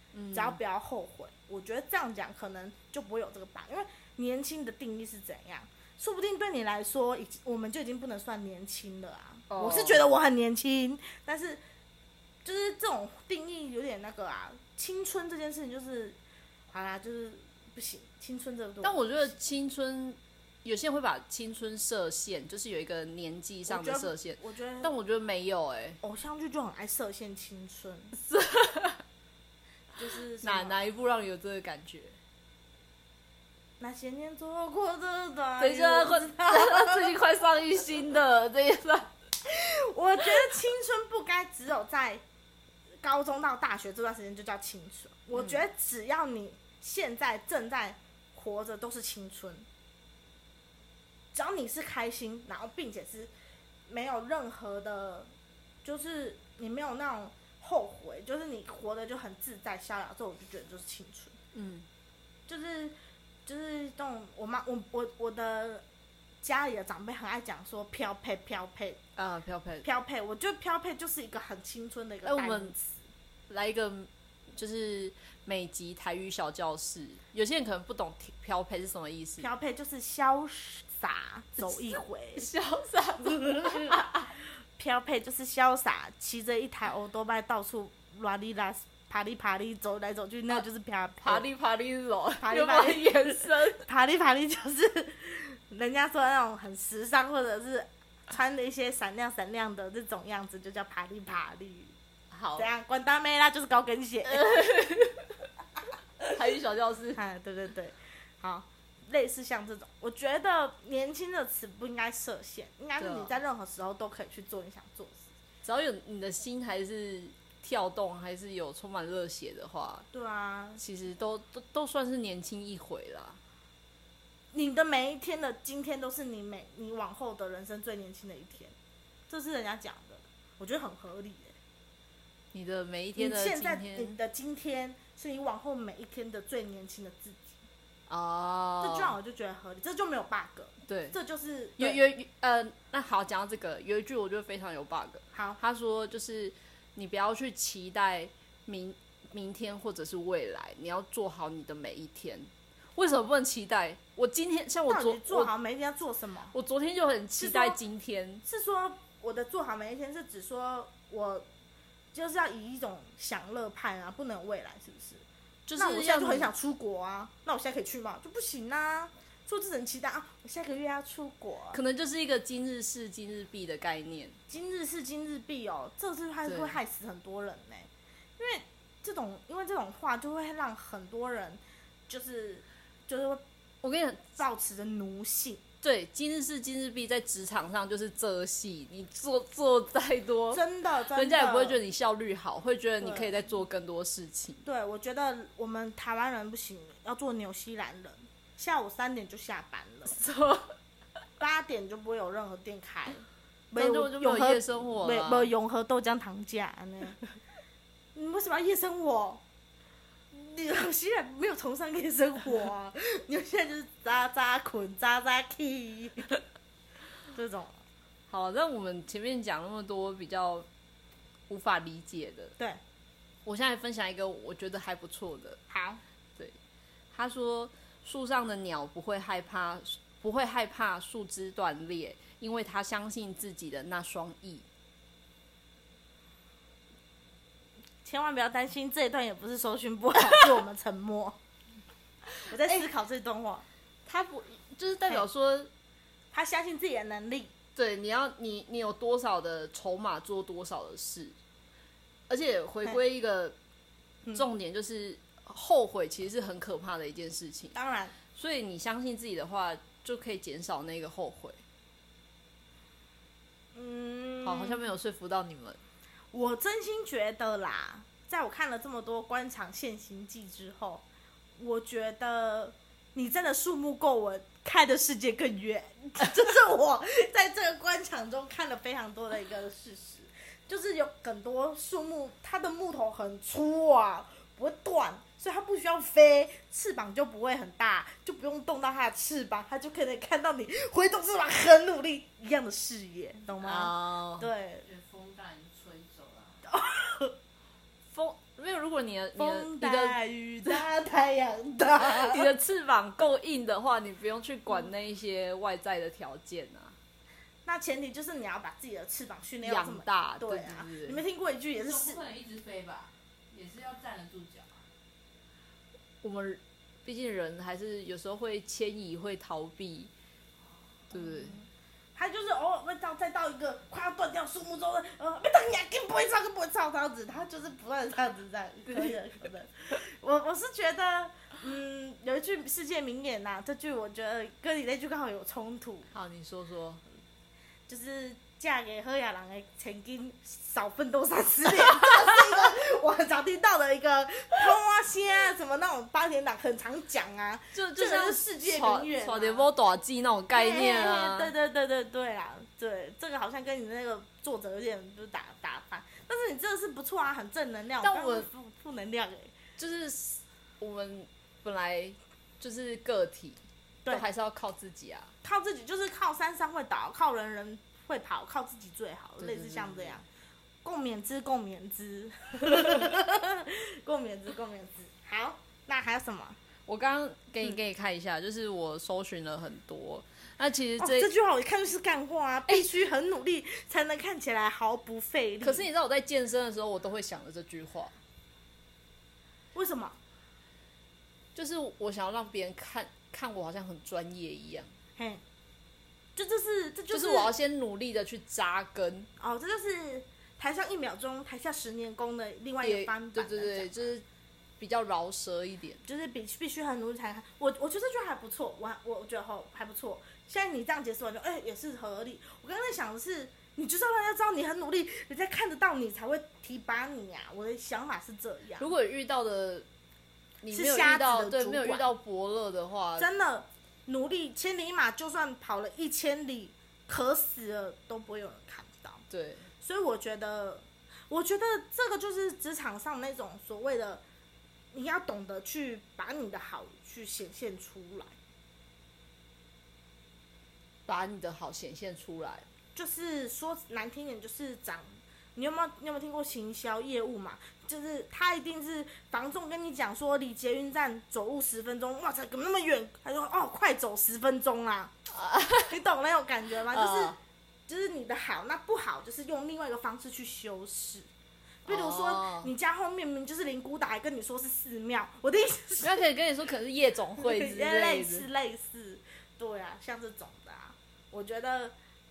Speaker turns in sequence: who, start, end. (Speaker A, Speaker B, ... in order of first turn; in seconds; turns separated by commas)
Speaker A: 0.1-0.6, Speaker B: 0.3-11.6, Speaker A: 9.5-10.1, Speaker B: 12.4-16.2, Speaker B: 16.7-19.3, Speaker A: 18.8-26.0, Speaker B: 23.7-24.9, Speaker B: 26.0-28.1, Speaker A: 28.1-29.0, Speaker B: 30.0-30.8, Speaker A: 30.4-32.1, Speaker B: 33.8-37.1, Speaker A: 35.6-39.1, Speaker B: 39.4-42.2, Speaker B: 43.0-49.6, Speaker B: 51.3-53.3, Speaker B: 53.9-55.3, Speaker B: 55.8-61.3, Speaker A: 61.5-61.9, Speaker B: 62.5-62.9, Speaker B: 63.5-65.8, Speaker B: 66.4-69.0, Speaker A: 69.2-69.8, Speaker B: 69.8-73.0, Speaker A: 72.2-72.7, Speaker A: 73.5-79.5, Speaker B: 79.4-82.5, Speaker A: 81.6-84.3, Speaker B: 83.2-84.0, Speaker B: 84.8-91.5, Speaker A: 91.2-93.8, Speaker B: 92.4-101.9, Speaker A: 102.3-102.7, Speaker B: 102.5-104.6, Speaker A: 104.3-105.2, Speaker A: 106.3-107.2, Speaker B: 107.1-115.3, Speaker A: 113.0-113.3, Speaker A: 115.6-120.1, Speaker B: 120.1-120.8, Speaker A: 120.8-123.4, Speaker B: 124.5-128.7, Speaker B: 129.3-131.5, Speaker A: 132.5-134.2, Speaker B: 133.2-137.6, Speaker A: 138.1-139.2, Speaker B: 138.8-142.0, Speaker A: 140.9-141.1, Speaker A: 141.8-155.5, Speaker B: 145.3-145.6, Speaker B: 154.9-156.5, Speaker A: 156.5-158.4, Speaker B: 157.4-157.8, Speaker B: 158.4-161.4, Speaker B: 162.1-165.2, Speaker A: 165.7-166.5, Speaker B: 165.8-171.8, Speaker A: 171.7-174.4, Speaker B: 174.5-183.4, Speaker A: 176.4-176.8, Speaker A: 183.8-184.2, Speaker B: 184.3-185.6, Speaker A: 185.8-194.6, Speaker B: 190.5-191.8, Speaker B: 193.0-193.3, Speaker B: 194.6-200.2, Speaker A: 200.1-200.7, Speaker B: 201.4-207.2, Speaker A: 203.8-205.5, Speaker B: 208.1-209.4, Speaker B: 210.3-216.4, Speaker B: 217.3-217.8, Speaker A: 218.3-220.7, Speaker A: 221.5-222.5, Speaker A: 223.4-225.6, Speaker B: 225.7-226.0, Speaker A: 227.1-234.6, Speaker B: 238.0-241.3, Speaker B: 242.4-243.6, Speaker A: 244.1-245.7, Speaker B: 246.3-247.5, Speaker A: 247.7-251.3, Speaker A: 252.3-253.6, Speaker A: 254.3-257.7, Speaker B: 257.7-258.1, Speaker A: 258.3-261.6, Speaker B: 263.7-264.8, Speaker A: 264.4-265.8, Speaker B: 266.3-271.0, Speaker B: 271.6-294.9, Speaker A: 293.6-294.5, Speaker C: 294.8-296.6, Speaker B: 296.6-297.3, Speaker A: 298.1-300.8, Speaker B: 299.4-302.5, Speaker A: 302.0-306.9, Speaker B: 307.6-312.2, Speaker A: 309.6-311.2, Speaker C: 311.8-314.8, Speaker A: 316.2-320.1, Speaker A: 321.1-321.5, Speaker B: 322.1-336.1, Speaker A: 336.1-337.0, Speaker B: 337.9-349.7, Speaker A: 347.7-351.5, Speaker B: 350.5-359.5, Speaker A: 358.0-358.5, Speaker A: 359.8-365.3, Speaker B: 365.4-370.2, Speaker A: 369.4-370.2, Speaker B: 370.8-376.6, Speaker A: 376.9-381.3, Speaker B: 381.0-385.9, Speaker A: 385.6-388.1, Speaker B: 389.7-390.2, Speaker A: 391.5-394.9, Speaker B: 395.2-395.4, Speaker B: 396.4-397.5, Speaker A: 397.1-399.3, Speaker B: 399.4-403.9, Speaker A: 402.8-404.2, Speaker A: 404.8-406.0, Speaker B: 406.0-418.9, Speaker A: 418.8-419.9, Speaker A: 420.6-423.3, Speaker B: 420.7-422.1, Speaker B: 423.2-429.2, Speaker A: 429.3-429.7, Speaker B: 429.8-434.2, Speaker B: 434.9-438.3, Speaker A: 441.1-442.6, Speaker B: 442.9-455.1, Speaker A: 455.3-455.9, Speaker B: 455.8-457.4, Speaker A: 456.9-457.4, Speaker B: 457.9-461.3, Speaker B: 461.8-466.2, Speaker A: 461.9-462.7, Speaker A: 466.0-468.5, Speaker B: 467.4-471.9